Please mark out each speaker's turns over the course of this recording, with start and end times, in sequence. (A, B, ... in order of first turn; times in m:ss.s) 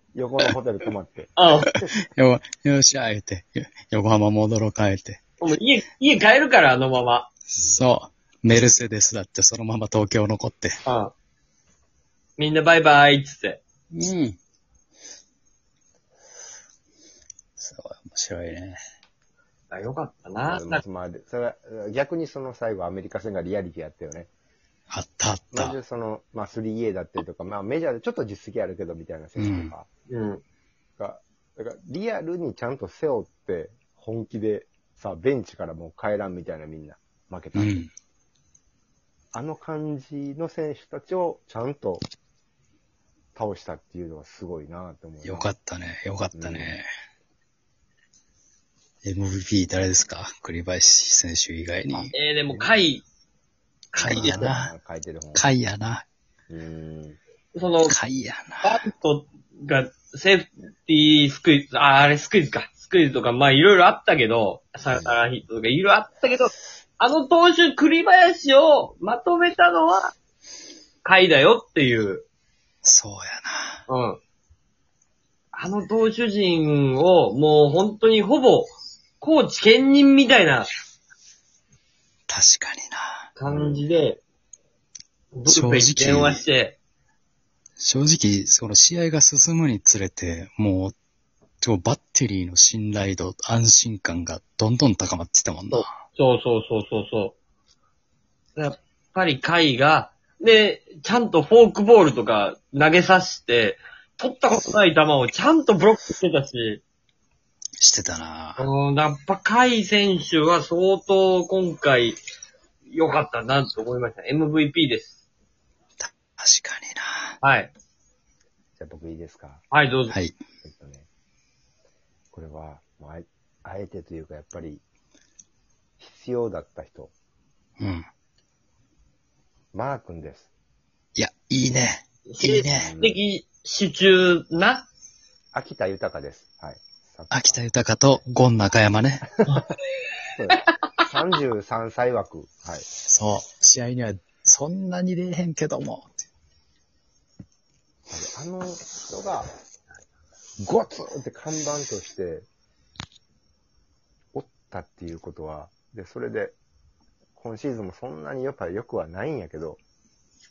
0:00.1-0:02.0 A
0:01.4-0:01.7 B
0:02.2-0:05.2 C
0:05.4-0:07.3 B
0:07.5-0:10.8 C
0:10.9-0:11.1 B
0:12.4-0:13.6 B
0:13.9-0:14.4 C
0:17.6-0:18.8 C
0:19.7-0:20.8 B
0:20.4-0:24.3 A
0:24.9-0:25.8 C
0:25.5-0:29.9 A
0:29.4-0:29.7 C
0:30.1-0:30.4 B
0:31.0-0:37.8 A
0:37.6-0:37.9 C
0:39.3-0:42.0 A
0:43.4-0:45.5 A
0:45.2-0:46.9 C
0:46.3-0:46.8 A
0:49.0-0:52.1 C
0:51.9-0:52.8 A
0:52.1-0:53.0 B
0:53.9-0:54.5 B
0:54.0-0:55.4 A
0:54.0-0:54.7 C
0:55.4-0:56.0 C
0:56.5-0:57.2 A
0:57.6-0:58.0 B
0:57.9-0:58.8 C
0:58.6-1:10.1 B
1:11.0-1:12.2 B
1:12.8-1:13.8 C
1:13.9-1:14.2 B
1:15.5-1:20.7 B
1:22.3-1:23.2 C
1:23.4-1:24.2 B
1:23.5-1:23.8 A
1:25.4-1:26.8 B
1:25.5-1:26.4 C
1:27.8-1:31.0 C
1:31.6-1:35.9 C
1:35.7-1:37.4 B
1:38.6-1:46.8 B
1:47.8-1:48.7 C
1:48.6-1:52.2 B
1:52.9-1:55.1 B
1:56.0-1:57.4 C
1:57.4-1:57.7 B
1:58.8-1:59.6 A
1:59.7-2:00.2 B
2:00.1-2:00.4 C
2:00.6-2:01.1 A
2:02.3-2:04.8 A
2:06.0-2:07.1 A
2:07.8-2:08.1 C
2:09.7-2:10.5 A
2:11.2-2:12.9 C
2:12.3-2:14.9 B
2:12.8-2:13.2 A
2:15.5-2:17.6 A
2:17.3-2:19.3 C
2:19.5-2:19.7 B
2:20.4-2:22.9 A
2:23.0-2:26.1 C
2:28.1-2:29.5 A
2:30.6-2:32.5 A
2:34.3-2:36.6 A
2:37.4-2:39.8 A